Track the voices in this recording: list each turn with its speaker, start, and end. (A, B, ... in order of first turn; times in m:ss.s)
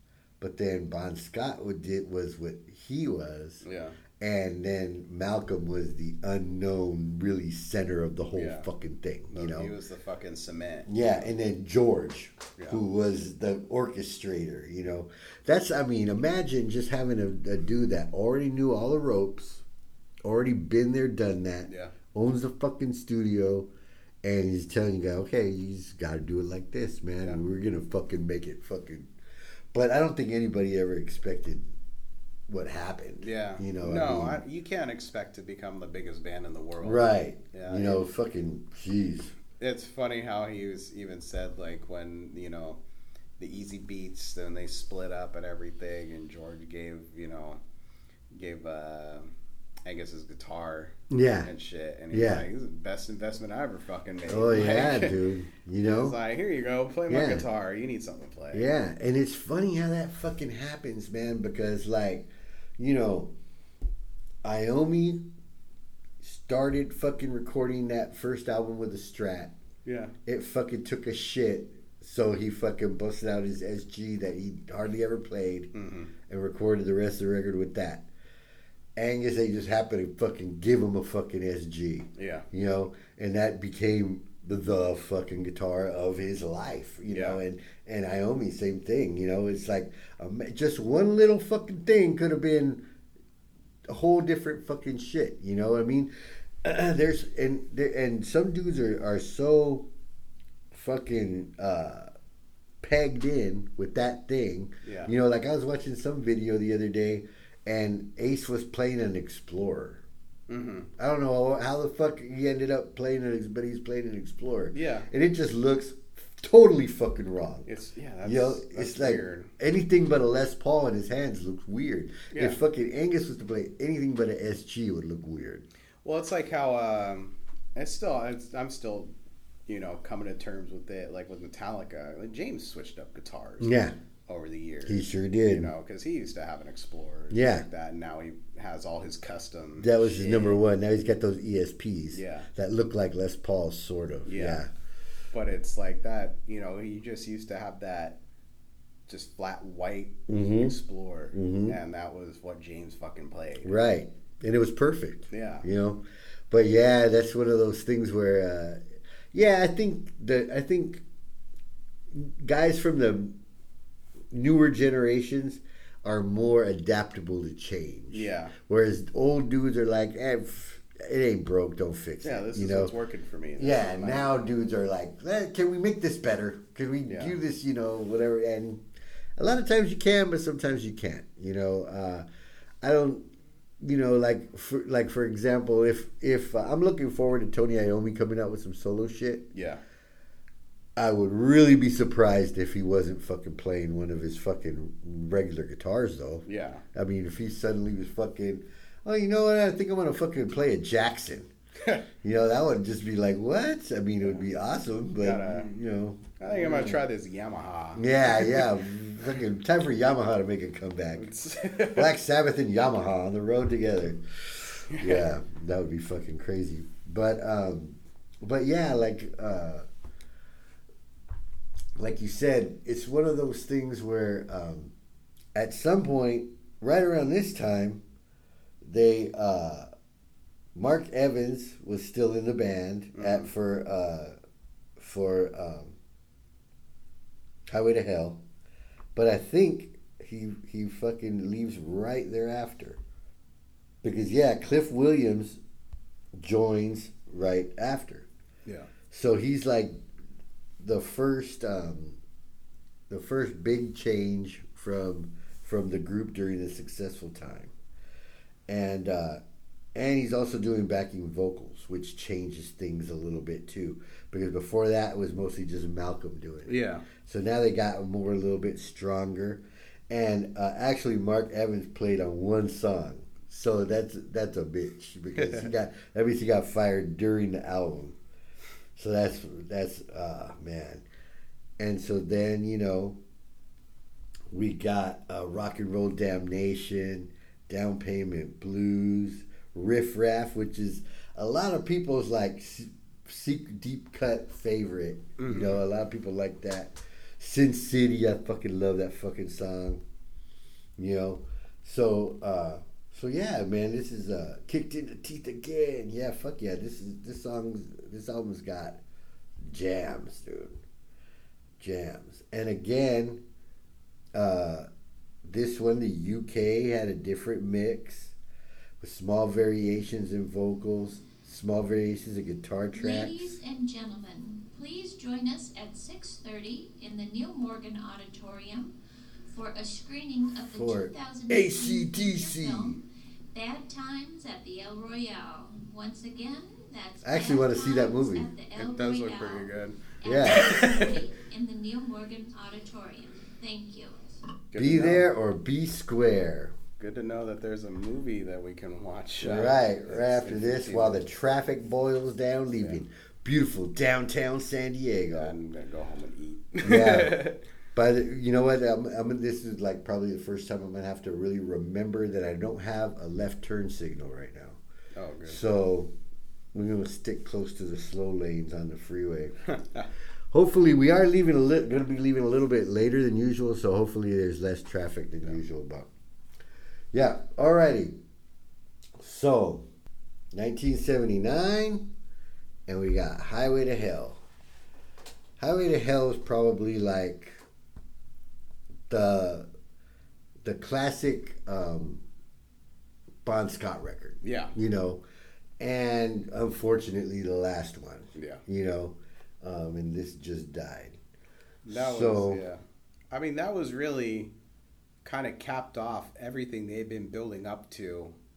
0:00.4-0:03.6 A
0:03.6-0:04.0 B
0:04.2-0:09.7 A
0:08.3-0:08.7 B
0:09.3-0:11.3 B
0:10.9-0:19.6 A
0:20.2-0:23.7 A
0:21.7-0:21.9 B
0:24.2-0:29.1 A
0:29.7-0:31.7 A
0:32.5-0:34.4 A
0:33.2-0:38.0 B
0:36.8-0:39.3 A
0:39.6-0:42.8 B
0:43.4-0:47.6 B
0:48.3-0:49.3 B
0:49.8-0:55.2 B
0:51.1-0:51.5 A
0:52.1-0:52.4 A
0:54.3-0:56.2 A
0:55.9-0:58.7 B
0:57.1-0:57.4 A
0:58.5-1:03.3 A
1:04.4-1:05.2 A
1:06.2-1:09.5 A
1:09.8-1:10.1 B
1:10.2-1:15.7 A
1:15.7-1:16.1 B
1:16.3-1:18.1 A
1:19.0-1:32.8 A
1:22.2-1:22.5 B
1:27.1-1:27.4 B
1:33.9-1:36.1 A
1:36.6-1:39.9 A
1:40.7-1:42.1 A
1:42.8-1:50.0 A
1:44.8-1:45.1 B
1:50.5-1:50.9 B
1:51.0-1:57.7 A
1:54.7-1:55.1 B
1:57.7-1:59.5 B
1:58.2-2:05.6 A
2:02.3-2:02.6 B
2:06.0-2:09.1 B
2:09.7-2:20.6 B
2:13.6-2:13.9 A
2:14.8-2:15.7 A
2:17.3-2:17.6 A
2:19.8-2:24.7 A
2:22.1-2:22.5 B
2:24.2-2:24.6 B
2:25.3-2:28.2 B
2:29.1-2:33.8 B
2:30.3-2:30.7 A
2:31.3-2:31.8 A
2:33.6-2:41.0 A
2:35.3-2:35.6 B
2:42.1-2:43.3 A
2:44.3-2:52.9 A
2:48.1-2:48.5 B
2:52.2-2:54.3 B
2:53.6-2:58.8 A
2:57.1-2:57.4 B
2:59.4-3:02.2 A
3:02.8-3:03.3 A
3:03.8-3:09.5 A
3:09.5-3:09.8 B
3:11.0-3:21.5 A
3:16.4-3:16.8 B
3:22.2-3:27.0 A
3:25.2-3:25.7 B
3:26.4-3:28.7 B
3:28.0-3:31.3 A
3:31.2-3:32.1 B
3:31.9-3:39.8 A
3:34.9-3:35.3 B
3:42.0-3:44.9 A
3:45.5-3:48.0 A
3:48.8-3:49.9 A
3:50.7-3:54.4 A
3:53.1-3:53.5 B
3:55.0-3:56.0 A
3:57.7-3:58.4 A
3:59.1-4:03.0 A
4:04.0-4:05.6 A
4:06.4-4:08.3 A
4:09.1-4:10.0 A
4:10.8-4:12.2 A
4:13.1-4:17.7 A
4:18.7-4:19.4 A
4:19.9-4:38.2 A
4:26.6-4:27.0 B
4:35.4-4:35.7 B
4:39.0-4:41.0 A
4:41.8-4:43.2 A
4:44.5-5:00.0 A
4:55.4-4:55.8 B
5:01.0-5:09.0 A
5:09.6-5:10.8 A
5:11.8-5:13.4 A
5:14.3-5:14.9 A
5:15.4-5:18.3 A
5:19.0-5:23.5 A
5:22.9-5:28.9 C
5:29.5-5:44.4 C
5:30.7-5:33.0 A
5:37.2-5:38.5 A
5:38.7-5:41.1 B
5:40.2-5:40.7 A
5:44.7-5:45.3 B
5:44.8-5:46.7 A
5:47.0-5:51.2 B
5:49.4-5:55.5 A
5:55.3-5:57.6 B
5:56.8-5:57.4 A
5:57.9-6:04.8 A
6:05.1-6:05.6 B
6:05.5-6:06.1 A
6:06.7-6:09.6 A
6:09.7-6:10.1 B
6:10.5-6:16.1 A
6:17.1-6:18.2 A
6:19.2-6:19.9 A
6:20.5-6:22.1 A
6:22.9-6:24.4 A
6:25.6-6:27.6 A
6:29.1-6:29.7 A
6:30.6-6:32.2 A
6:33.4-6:35.2 A
6:34.4-6:34.7 B
6:35.8-6:41.2 A
6:38.4-6:38.6 B
6:41.8-6:42.8 B
6:41.9-6:42.6 A
6:43.3-6:44.5 B
6:45.2-6:48.3 B